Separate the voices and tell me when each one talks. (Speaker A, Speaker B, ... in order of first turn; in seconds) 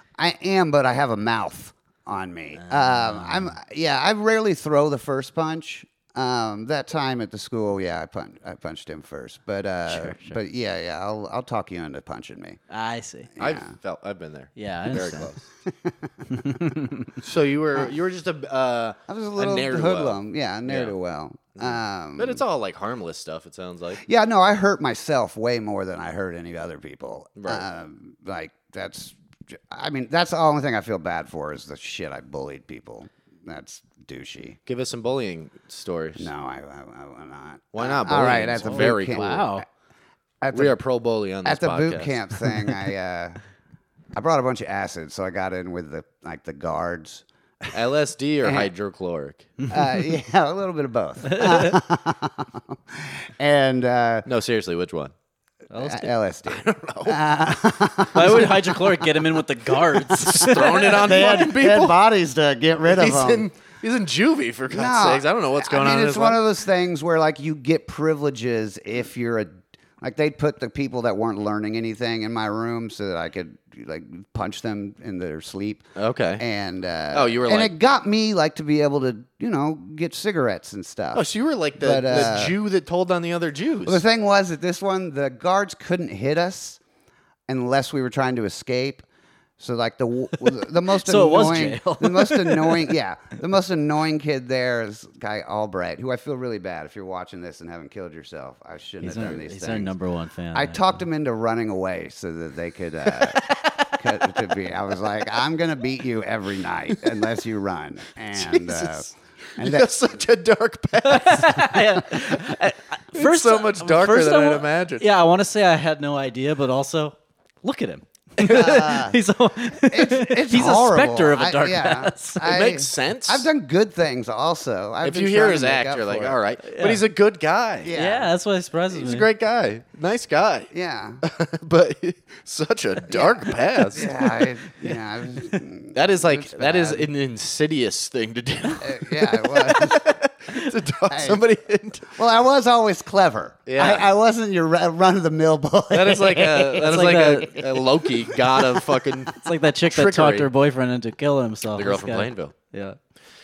Speaker A: 0.2-12.6, 13.4-13.7, 15.6-16.1, 19.1-22.4, 24.0-34.6, 36.2-39.6, 40.4-40.8, 41.4-43.4, 44.1-47.7, 48.4-48.7, 49.7-54.2, 55.8-58.8, 60.7-63.5, 64.7-75.8, 76.4-81.2, 81.8-82.5, 83.8-86.8, 87.5-89.0, 89.6-99.9, 100.5-109.9, 118.4-119.2, 119.8-126.4, 127.8-128.3, 130.7-131.2, 133.1-137.1, 138.8-140.1, 141.1-141.4, 142.1-149.0
Speaker B: 2.6-3.5, 9.9-10.4, 12.7-13.3, 14.6-15.3, 16.3-17.1, 38.6-39.6, 51.2-51.8, 55.7-56.1, 58.1-61.1, 90.9-92.9, 99.0-100.8, 111.0-122.5, 126.6-127.0, 127.9-129.3, 146.8-147.6, 149.3-153.0
Speaker C: 13.4-15.4, 17.2-20.9, 21.6-24.0, 27.4-27.6, 34.7-36.3, 37.7-39.4, 40.5-42.3, 47.7-49.5, 54.2-55.1, 56.5-57.2, 60.2-62.0, 62.9-66.4, 76.0-76.4, 77.1-77.7, 81.1-84.0, 103.2-103.9, 108.3-112.4, 113.1-115.1, 122.4-123.5, 125.0-127.9, 128.9-134.1, 135.9-142.2, 143.7-144.1, 145.9-150.5, 151.7-152.5